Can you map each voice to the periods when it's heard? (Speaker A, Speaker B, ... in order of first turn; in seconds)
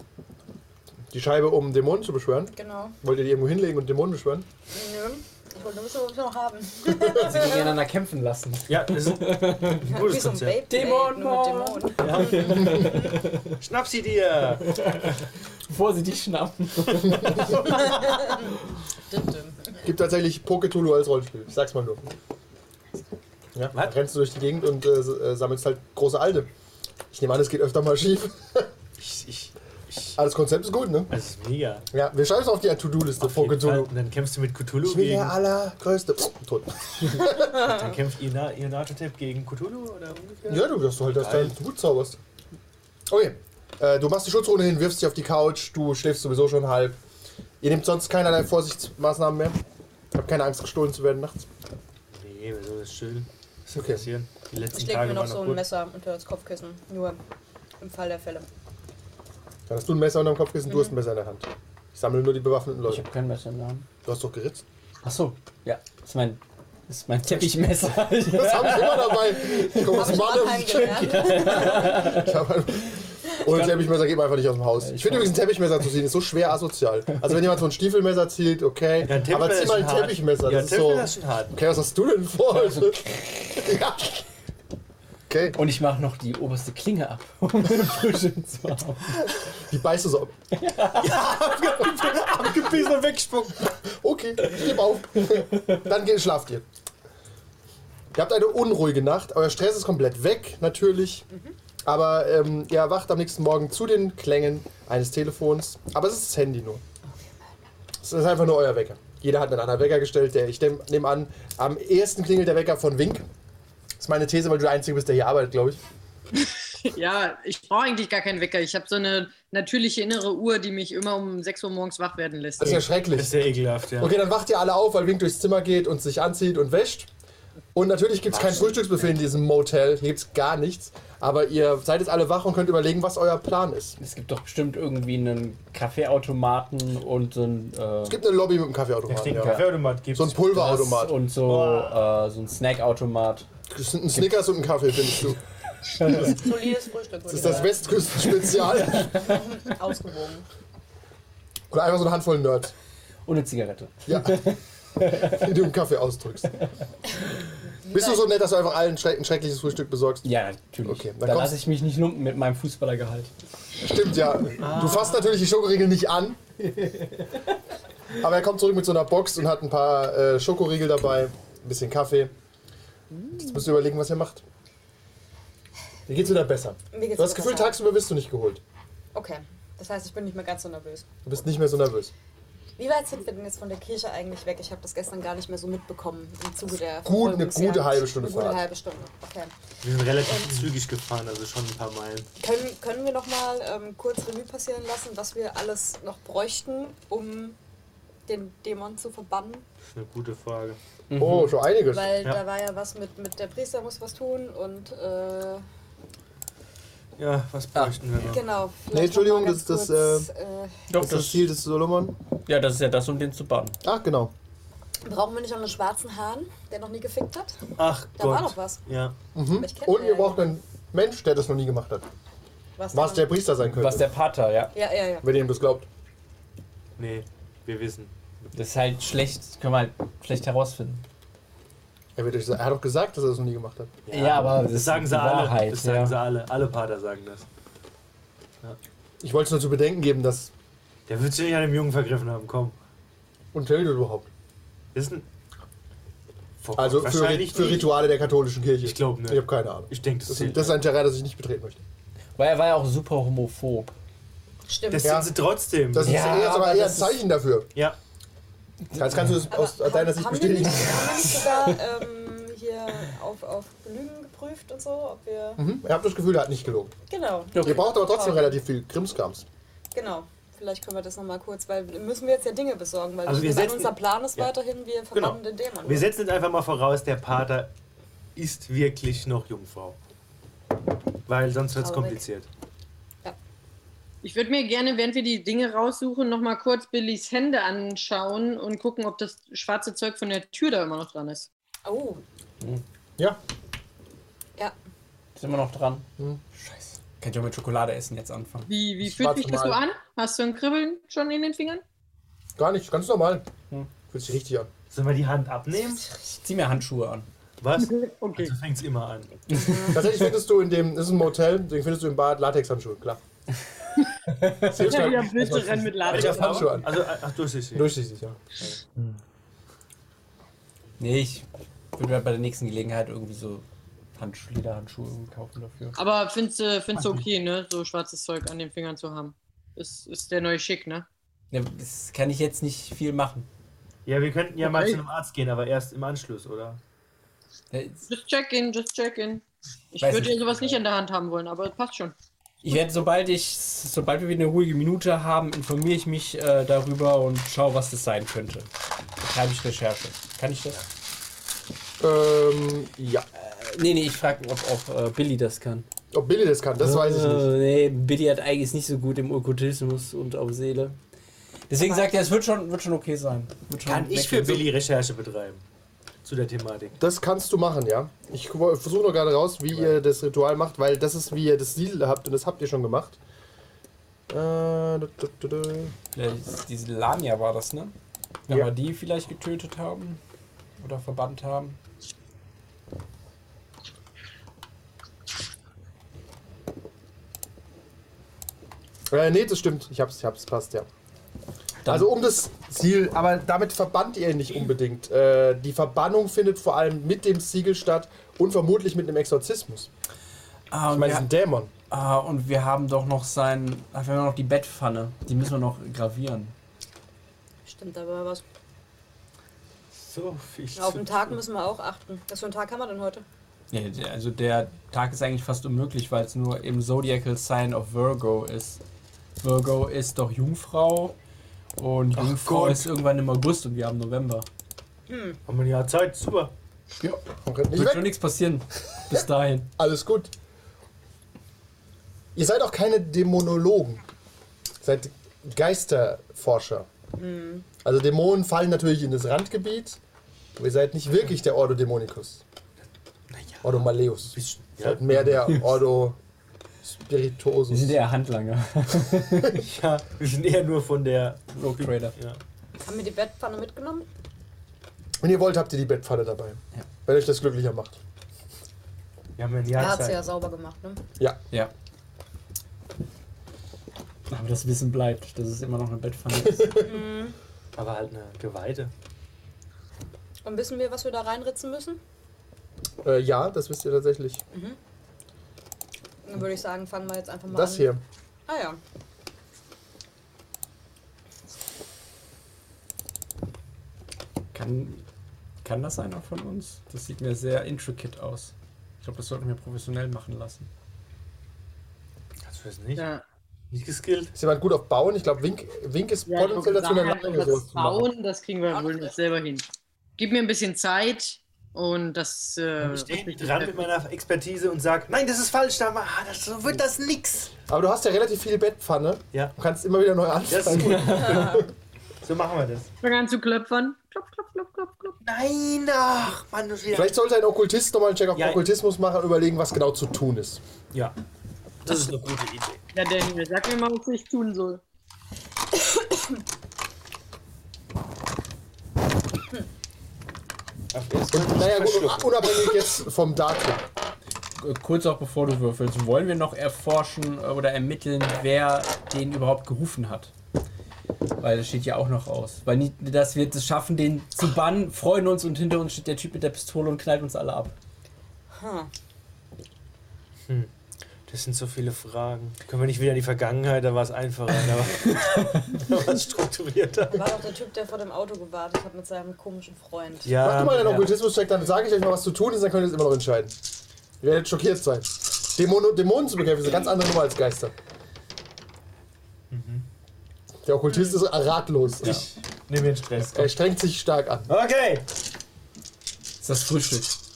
Speaker A: 1.1-4.5, 17.2-17.4, 19.8-22.1, 23.5-26.5, 27.1-28.7, 30.1-31.1, 31.9-33.9, 34.8-37.7, 40.5-42.2, 43.1-47.0, 47.6-49.6, 50.1-51.5, 53.7-54.1, 59.7-63.0, 64.0-64.6, 67.3-84.2, 85.3-85.6, 89.6-90.3, 93.8-96.6, 98.1-101.2, 101.8-106.8, 108.0-113.3, 114.0-115.8, 122.6-123.4, 124.0-127.1, 127.7-133.9, 138.1-141.2, 143.7-145.4, 146.0-146.3, 147.3-149.2, 151.7-152.7, 154.1-154.4, 155.2-156.6, 157.9-160.2, 160.8-161.6, 163.8-166.4, 168.1-172.3, 173.3-174.4, 176.1-178.6, 181.2-182.1, 187.0-188.6, 201.2-202.2, 208.9-210.3, 211.0-212.2, 213.8-214.3, 219.3-222.1, 222.9-224.1, 225.2-225.9, 232.2-233.9, 239.2-240.5, 243.5-244.3, 246.8-251.8, 255.0-255.3, 255.9-257.7, 258.9-261.3, 265.6-266.9, 267.6-269.5, 299.0-299.8, 302.6-303.4, 304.1-304.7, 309.9-313.2, 314.6-317.1, 317.7-318.4, 352.0-353.3, 356.1-357.5, 367.0-373.2, 374.3-375.9, 389.1-390.9, 391.9-399.9, 400.9-401.7, 427.4-428.1, 429.8-430.3, 432.3-434.0, 434.8-436.9, 437.8-440.0, 440.6-442.4, 443.6-446.2, 446.8-448.0, 455.2-458.0, 473.0-474.4, 477.5-478.0, 494.3-498.1, 507.7-511.7, 516.9-520.6, 531.3-533.8, 560.4-563.5, 564.2-567.7, 570.6-572.2, 573.2-574.5
Speaker B: 2.5-3.0, 4.7-7.7, 9.8-13.2, 17.6-18.6, 19.1-19.8, 54.7-57.2, 57.8-58.5, 60.7-60.9, 69.8-72.1, 146.1-147.9, 149.1-150.4, 157.8-158.2, 176.9-177.7, 179.1-181.1, 182.8-189.5, 190.2-190.6, 192.4-197.6, 198.3-199.6, 201.9-205.6, 208.2-210.9, 215.0-217.6, 218.2-218.8, 219.6-220.4, 222.8-223.3, 224.7-225.2, 254.7-255.2, 259.5-265.6, 267.1-268.6, 269.9-276.1, 281.8-282.2, 291.8-292.2, 309.5-310.0, 361.8-362.2, 407.6-408.4, 410.7-413.2, 425.1-425.4, 437.2-437.6, 452.8-454.1, 459.7-461.0, 466.8-467.4, 470.4-472.0, 474.5-474.8, 476.2-477.9, 478.5-478.8, 511.2-511.6, 525.8-526.3, 548.5-548.9, 557.1-560.4
Speaker C: 7.2-10.0, 10.7-13.6, 14.6-18.5, 62.9-63.9, 65.0-72.3, 74.8-75.4, 82.6-83.0, 85.5-89.3, 90.5-91.2, 134.0-138.2, 139.3-139.6, 140.5-143.5, 146.0-146.3, 148.3-149.2, 153.2-155.5, 160.2-163.3, 166.8-167.3, 201.1-201.6, 210.9-211.5, 212.4-213.8, 223.6-224.7, 228.5-231.0, 234.1-236.2, 252.4-253.9, 256.0-257.2, 261.4-261.8, 267.5-267.9, 295.4-298.7, 306.3-307.3, 309.5-310.3, 314.3-314.9, 321.0-326.0, 331.5-333.5, 337.7-338.1, 340.0-340.8, 342.6-350.8, 353.3-355.9, 356.8-361.0, 361.7-364.7, 376.1-377.9, 378.5-380.2, 380.8-381.8, 391.8-392.1, 400.7-401.3, 401.9-406.5, 413.7-418.8, 419.4-421.1, 421.8-424.5, 427.0-429.7, 447.7-449.6, 451.5-452.1, 464.3-467.0, 484.5-485.1, 485.6-490.7, 510.8-511.6, 534.6-540.3, 541.4-547.7, 555.0-555.9, 576.4-577.2
Speaker D: 8.7-10.6, 12.0-12.9, 13.6-14.8, 29.0-30.2, 31.1-31.9, 33.2-35.4, 37.5-41.5, 52.1-55.6, 79.0-81.5, 91.0-93.8, 122.6-124.2, 128.3-129.1, 139.1-140.4, 141.4-142.0, 164.6-165.4, 189.8-192.3, 199.9-200.8, 207.2-208.4, 217.8-219.1, 227.0-228.1, 234.1-237.5, 241.1-242.7, 244.9-245.2, 246.6-247.9, 248.8-250.8, 254.9-256.3, 273.2-274.5, 275.1-277.7, 278.4-280.0, 281.3-282.5, 304.9-306.0, 307.6-309.3, 316.1-318.0, 334.1-336.8, 363.9-365.6, 366.2-367.0, 410.0-411.3, 422.2-422.9, 425.5-426.5, 443.3-443.8, 444.3-445.1, 449.6-452.4, 459.4-460.3, 467.8-468.9, 492.4-493.1, 493.7-494.3, 502.8-507.5, 510.5-511.6, 512.2-512.9, 515.2-517.1, 518.3-518.6, 521.8-522.8, 530.9-532.4, 551.3-557.4, 560.2-561.1, 569.5-569.9, 572.0-573.5, 574.5-575.0
Speaker E: 116.3-122.8, 284.2-291.5, 298.7-301.8, 307.8-308.5, 314.8-316.8, 326.0-331.1, 334.6-335.0, 338.1-342.1, 492.9-493.2, 496.3-503.9, 513.0-515.2, 522.9-524.8